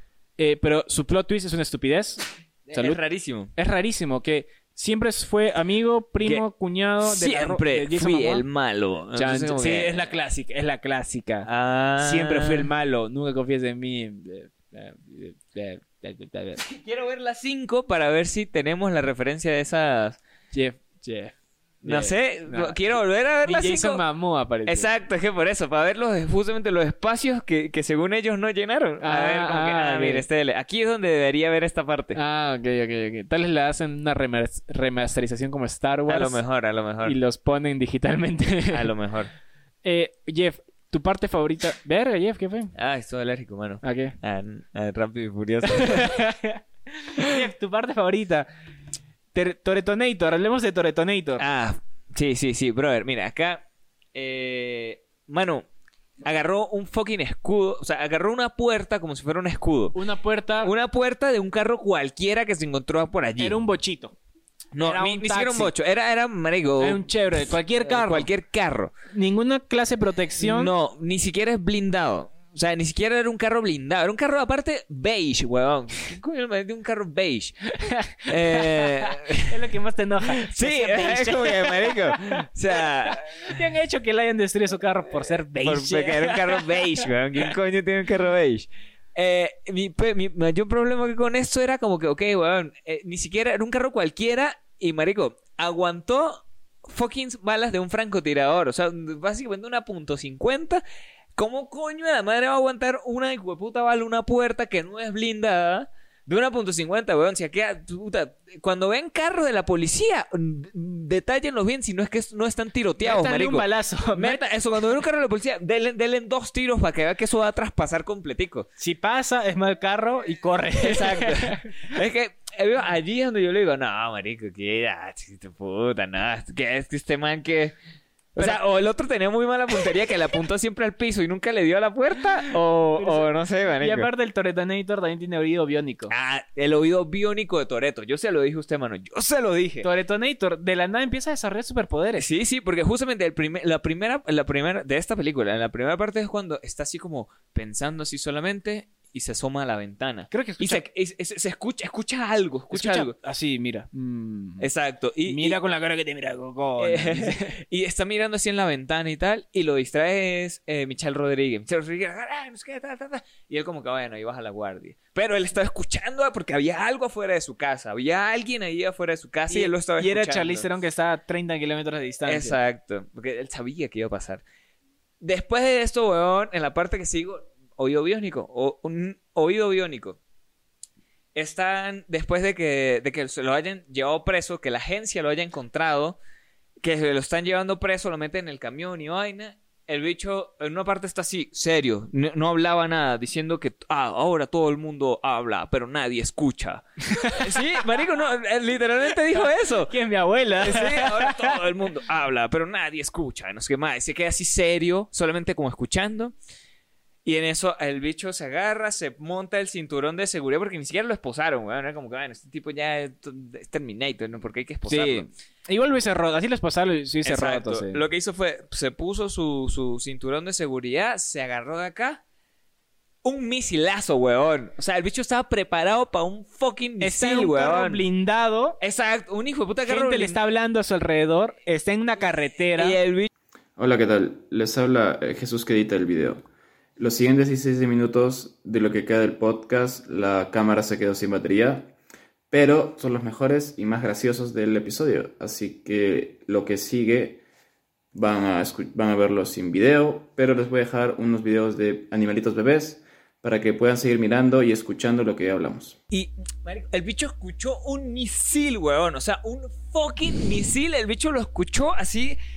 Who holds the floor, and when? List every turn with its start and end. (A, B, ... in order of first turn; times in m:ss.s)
0:00.4-0:03.0 A
0:02.7-0:03.5 B
0:03.6-0:08.4 A
0:07.0-0:10.1 B
0:09.1-0:16.6 A
0:11.4-0:12.7 B
0:16.6-0:20.2 B
0:20.5-0:22.9 A
0:21.8-0:24.0 B
0:23.4-0:24.9 A
0:24.7-0:32.2 B
0:29.0-0:30.2 A
0:32.2-0:36.4 A
0:36.1-0:37.2 B
0:37.0-0:38.9 A
0:38.7-0:39.3 B
0:39.8-0:42.7 A
0:42.8-0:46.2 B
0:43.8-0:44.2 A
0:45.7-0:48.5 A
0:49.3-0:51.4 A
0:51.4-0:55.7 B
0:56.2-1:00.0 B
0:59.9-1:00.7 A
1:00.6-1:03.6 B
1:03.4-1:04.2 A
1:04.7-1:07.0 B
1:04.8-1:05.7 A
1:06.8-1:08.3 A
1:07.8-1:08.9 B
1:09.1-1:10.7 A
1:10.4-1:17.6 B
1:17.8-1:22.5 A
1:18.3-1:19.6 B
1:20.3-1:23.6 B
1:23.1-1:27.0 A
1:25.6-1:40.8 B
1:41.4-1:58.7 B
1:53.0-1:54.4 A
1:58.8-2:01.7 A
2:00.8-2:07.8 B
2:08.4-2:14.1 B
2:13.0-2:16.1 A
2:16.1-2:19.9 B
2:19.8-2:22.3 A
2:22.2-2:33.2 B
2:30.3-2:30.8 A
2:32.7-2:34.7 A
2:34.6-2:35.6 B
2:35.3-2:37.6 A
2:36.8-2:50.7 B
2:49.5-2:52.6 A
2:52.2-2:54.4 B
2:55.2-3:00.2 B
3:01.4-3:06.2 B
3:06.8-3:19.9 B
3:17.1-3:17.7 A
3:19.9-3:21.6 A
3:20.6-3:26.4 B
3:27.2-3:35.3 B
3:34.9-3:38.0 A
3:37.2-3:42.2 B
3:43.2-3:48.0 B
3:47.0-3:48.8 A
3:48.8-3:50.4 B
3:49.9-3:53.0 A
3:52.8-3:53.3 B
3:53.8-3:56.4 C
3:57.0-4:01.9 C
4:02.5-4:07.4 C
4:08.1-4:16.0 C
4:16.1-4:22.4 B